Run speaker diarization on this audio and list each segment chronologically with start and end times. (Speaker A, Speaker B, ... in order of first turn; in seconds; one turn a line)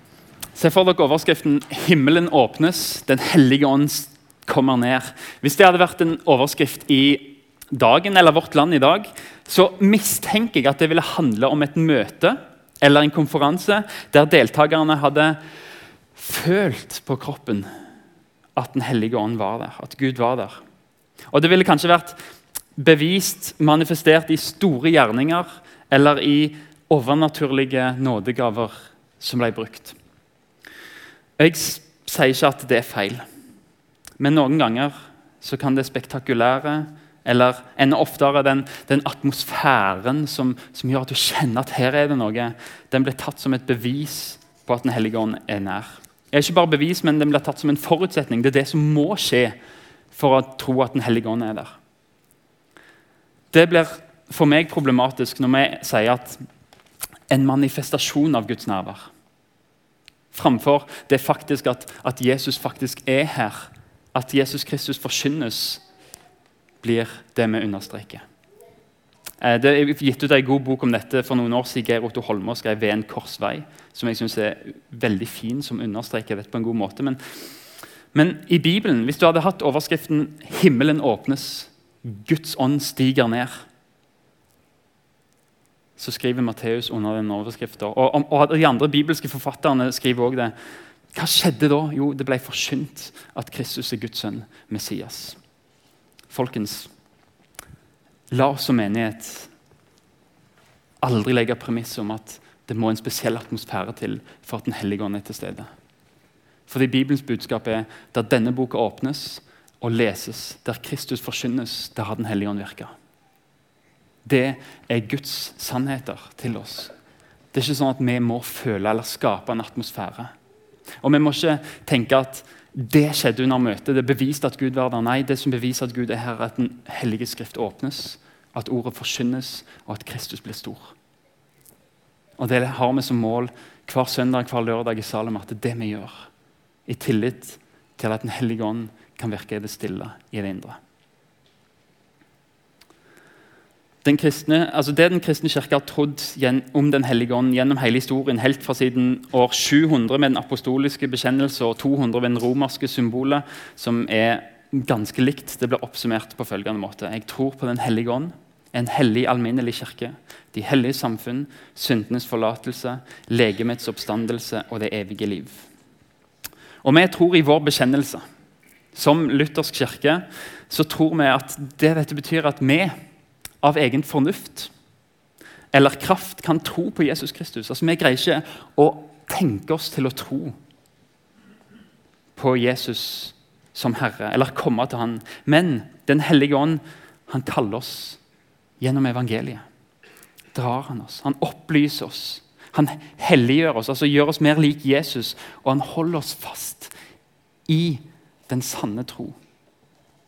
Speaker A: 0.6-15.4
Speaker A: 16.2-17.7
Speaker A: 18.6-20.6
Speaker A: 21.3-22.2
Speaker A: 22.8-30.0
Speaker A: 31.4-33.2
Speaker A: 34.2-49.6
Speaker A: 50.1-51.8
Speaker A: 53.5-56.4
Speaker A: 57.3-59.1
Speaker A: 60.3-65.8
Speaker A: 66.8-68.2
Speaker A: 69.4-77.2
Speaker A: 78.1-83.6
Speaker A: 86.0-90.5
Speaker A: 91.1-95.4
Speaker A: 96.3-96.9
Speaker A: 98.3-99.5
Speaker A: 101.0-105.7
Speaker A: 106.7-112.9
Speaker A: 114.2-116.9
Speaker A: 117.5-120.3
Speaker A: 121.0-130.9
Speaker A: 132.4-136.3
Speaker A: 136.9-140.8
Speaker A: 144.0-165.7
Speaker A: 166.8-168.2
Speaker A: 168.9-173.0
Speaker A: 173.6-174.7
Speaker A: 175.7-180.6
Speaker A: 182.4-188.2
Speaker A: 188.8-189.7
Speaker A: 190.5-196.9
Speaker A: 197.7-199.4